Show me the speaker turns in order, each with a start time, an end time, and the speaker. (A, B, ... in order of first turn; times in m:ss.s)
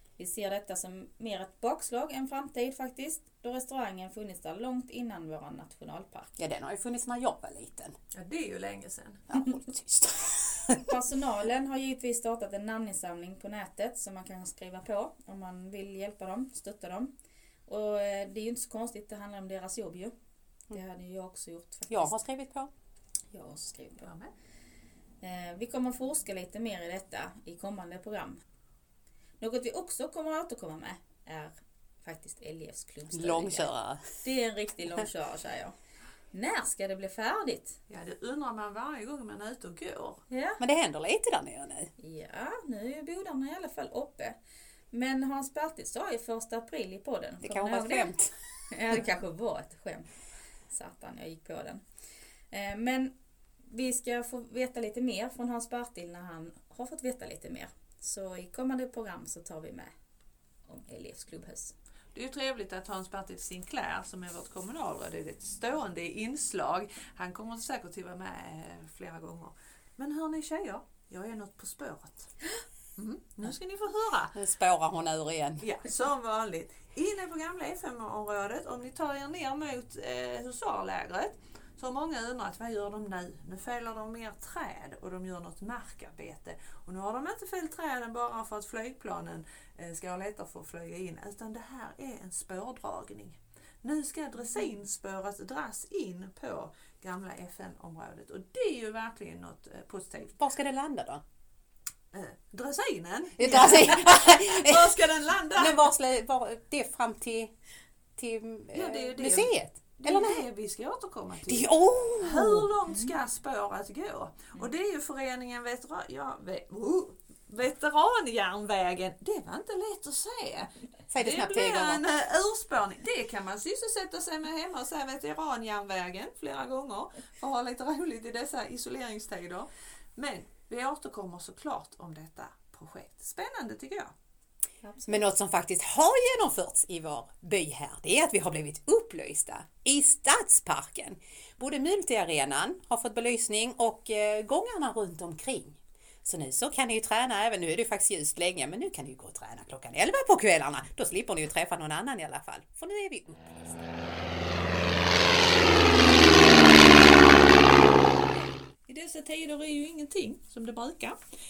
0:00.2-0:06.4 A
0:06.4-0:08.0 B
0:08.1-0:09.2 C
0:09.3-0:10.8 B
0:10.9-0:17.1 A
0:17.7-0:20.1 A
0:20.7-0:22.2 A
0:21.9-0:22.7 B
0:23.3-0:24.1 A
0:24.0-0:24.3 C
0:25.2-0:28.4 A
0:29.4-0:35.8 A
0:33.1-0:34.0 B
0:36.3-0:37.8 A
0:37.9-0:40.2 C
0:40.3-0:40.6 A
0:40.6-0:41.9 B
0:42.0-0:44.4 A
0:44.9-0:48.1 A
0:47.4-0:48.3 B
0:48.7-0:50.1 A
0:50.7-0:51.8 A
0:52.5-0:53.1 A
0:53.7-0:59.9 A
1:00.7-1:01.8 A
1:02.1-1:12.3 C
1:13.0-1:14.4 C
1:14.3-1:15.6 B
1:15.6-1:40.4 C
1:40.3-1:41.2 B
1:42.1-1:45.9 C
1:43.4-1:45.0 B
1:45.6-1:47.5 B
1:48.2-1:50.5 B
1:48.7-1:51.7 C
1:51.5-1:52.7 B
1:52.2-2:14.1 C
2:01.1-2:02.0 B
2:14.8-2:15.3 A
2:15.1-2:34.0 B
2:35.0-2:35.4 B
2:36.4-2:37.0 B
2:38.9-2:41.2 C